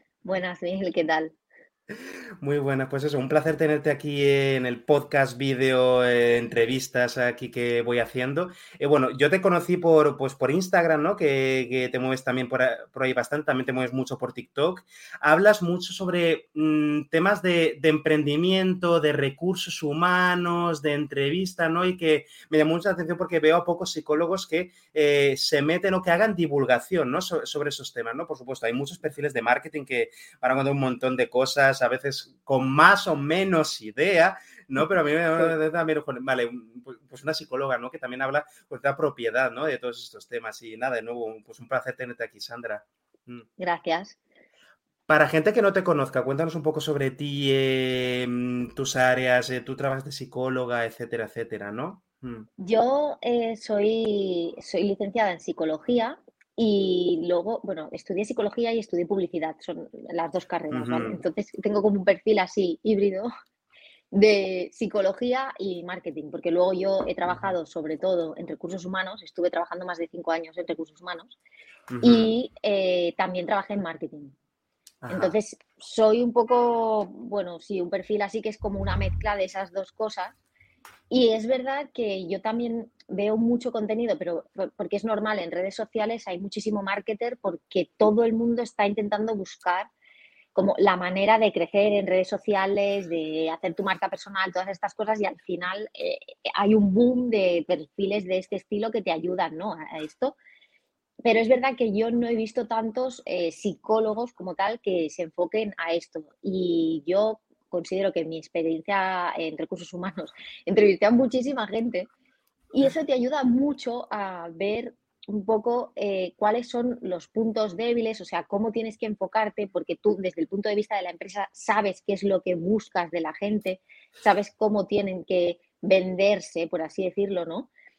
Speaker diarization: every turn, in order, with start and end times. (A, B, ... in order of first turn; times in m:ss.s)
0:00.2-0:01.4 A
0:02.4-0:43.5 B
0:43.6-0:44.2 A
0:45.1-0:52.5 B
0:52.6-1:03.3 A
1:00.7-1:01.2 B
1:04.1-1:11.4 A
1:07.3-1:07.5 B
1:11.9-1:12.3 B
1:12.0-1:14.4 A
1:15.0-1:15.4 B
1:15.1-1:20.4 A
1:21.1-1:29.9 A
1:30.6-1:40.4 A
1:41.2-1:52.1 A
1:52.7-2:07.7 A